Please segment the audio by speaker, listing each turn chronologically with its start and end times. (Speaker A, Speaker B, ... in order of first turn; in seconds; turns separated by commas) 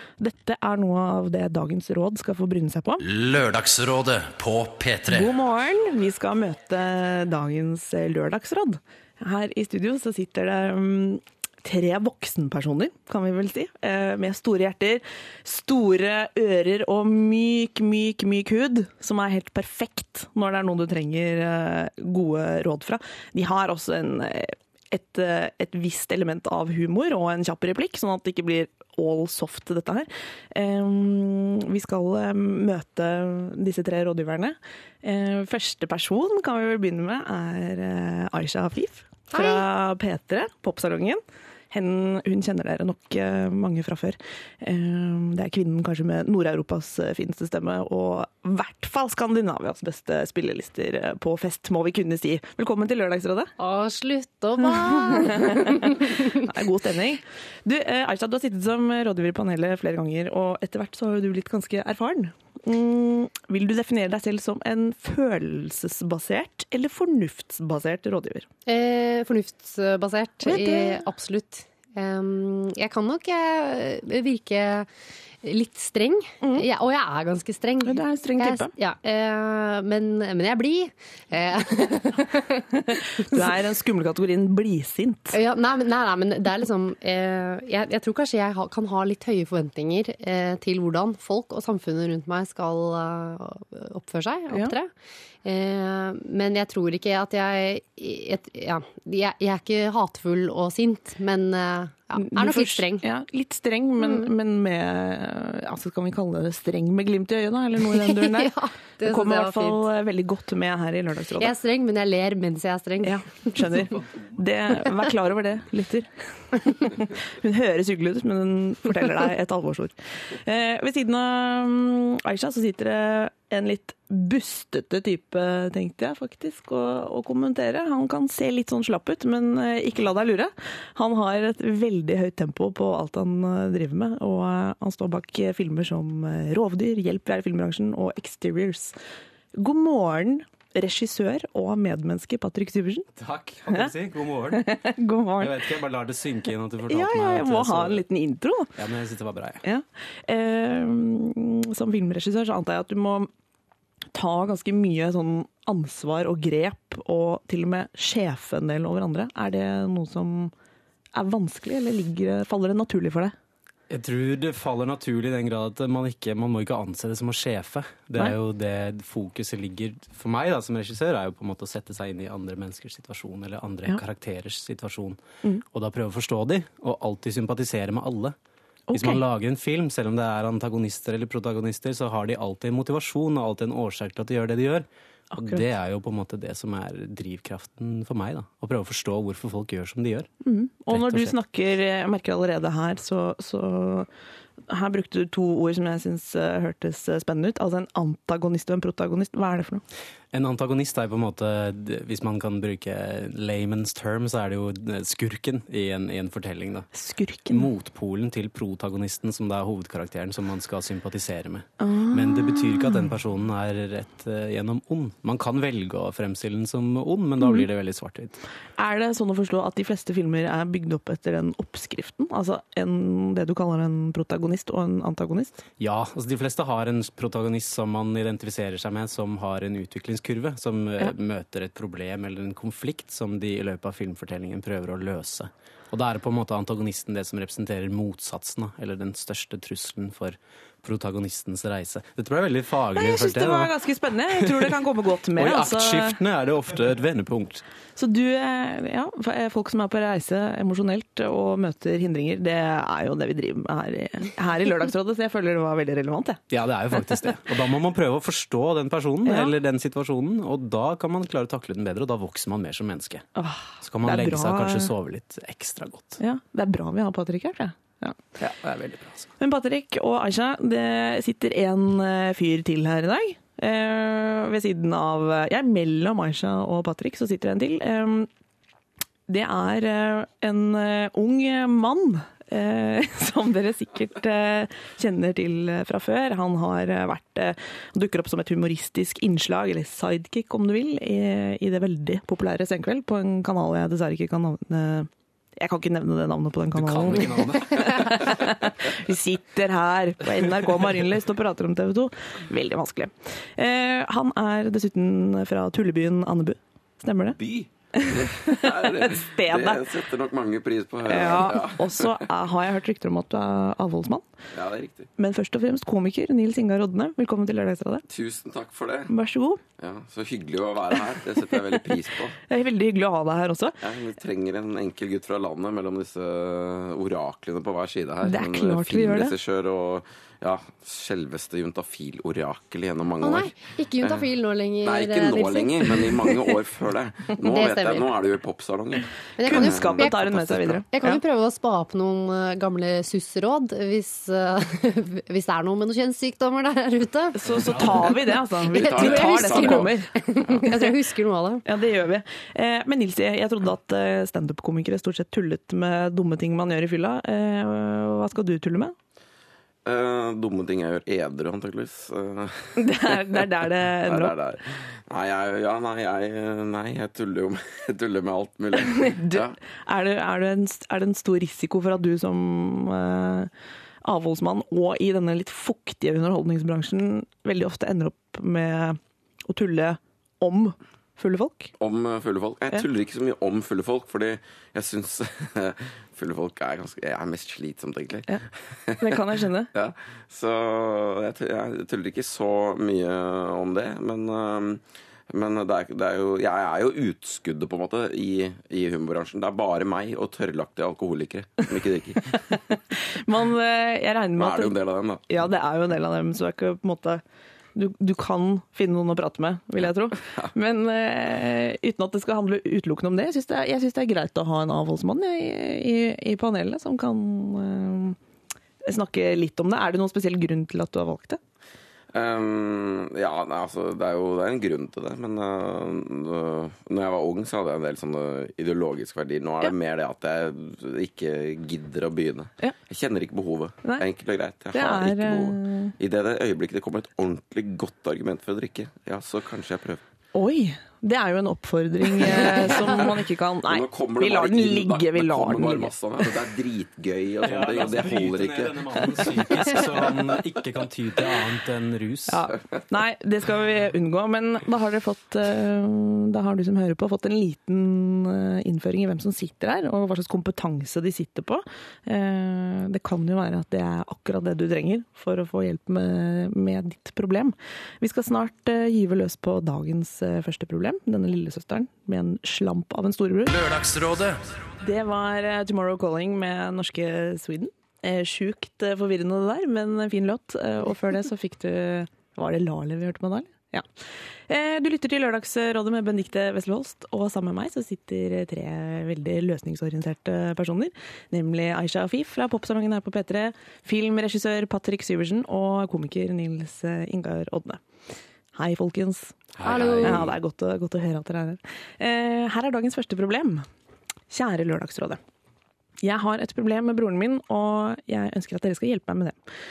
Speaker A: 0.2-3.0, Speaker B: 3.0-5.3, Speaker A: 5.1-53.5, Speaker C: 39.3-39.7, Speaker C: 53.6-56.3, Speaker A: 54.6-68.5, Speaker C: 68.7-74.9, Speaker A: 70.4-71.0, Speaker C: 75.4-83.5, Speaker A: 77.8-78.7, Speaker A: 83.2-85.4, Speaker C: 85.3-94.9, Speaker C: 95.4-103.0, Speaker A: 102.2-111.5, Speaker C: 104.0-104.3, Speaker C: 107.9-109.9, Speaker C: 111.4-113.9, Speaker A: 113.0-138.9, Speaker A: 139.6-143.1, Speaker D: 143.2-144.7, Speaker A: 144.5-145.6, Speaker D: 145.4-148.0, Speaker A: 146.9-148.7, Speaker D: 148.8-149.6, Speaker A: 149.6-153.3, Speaker A: 154.1-160.5, Speaker A: 161.1-163.3, Speaker D: 163.9-175.2, Speaker D: 175.7-178.3, Speaker A: 178.9-179.2, Speaker D: 178.9-190.3, Speaker A: 185.3-185.6, Speaker A: 190.4-194.1, Speaker D: 190.9-191.3, Speaker A: 194.7-199.8, Speaker D: 200.3-206.9, Speaker A: 206.9-207.7, Speaker D: 207.5-218.4, Speaker A: 211.8-213.1, Speaker A: 217.4-217.7, Speaker A: 218.8-225.6, Speaker D: 225.8-243.7, Speaker A: 242.9-246.2, Speaker D: 244.4-244.7, Speaker D: 245.3-247.6, Speaker A: 247.9-256.4, Speaker D: 256.5-263.2, Speaker A: 259.2-259.5, Speaker A: 263.4-264.9, Speaker D: 263.8-266.2, Speaker A: 266.2-268.2, Speaker D: 268.4-269.3, Speaker A: 269.4-278.3, Speaker A: 279.3-307.4, Speaker D: 296.7-298.5, Speaker E: 307.4-312.2, Speaker A: 308.0-310.0, Speaker A: 311.1-314.3, Speaker E: 314.5-315.1, Speaker A: 315.2-318.0, Speaker E: 318.1-319.1, Speaker A: 319.1-319.6, Speaker E: 319.8-322.4, Speaker A: 322.5-323.8, Speaker E: 323.8-334.3, Speaker A: 328.2-329.3, Speaker C: 333.2-336.1, Speaker E: 334.8-340.8, Speaker C: 337.4-338.1, Speaker C: 339.4-340.2, Speaker A: 339.4-341.2, Speaker C: 340.9-347.8, Speaker A: 347.3-350.1, Speaker E: 347.5-348.0, Speaker D: 347.6-347.9, Speaker C: 348.6-351.6, Speaker E: 348.7-349.9, Speaker A: 350.6-350.9, Speaker A: 351.6-358.9, Speaker E: 359.8-363.4, Speaker A: 362.8-364.3, Speaker E: 364.0-369.6, Speaker A: 368.8-373.5, Speaker A: 374.0-381.7, Speaker E: 381.8-402.4, Speaker A: 389.0-389.7, Speaker A: 402.6-404.8, Speaker E: 404.4-405.4, Speaker A: 405.3-407.2, Speaker A: 407.7-418.2, Speaker A: 418.8-421.4, Speaker E: 422.1-440.0, Speaker A: 434.7-435.9, Speaker A: 440.3-445.9, Speaker E: 442.5-450.4, Speaker D: 447.4-452.5, Speaker A: 452.3-473.5, Speaker B: 473.5-474.4, Speaker A: 474.8-483.9, Speaker A: 484.5-497.8, Speaker A: 498.5-503.6, Speaker D: 499.6-500.3, Speaker C: 499.6-500.2, Speaker A: 504.3-505.2, Speaker A: 506.0-509.4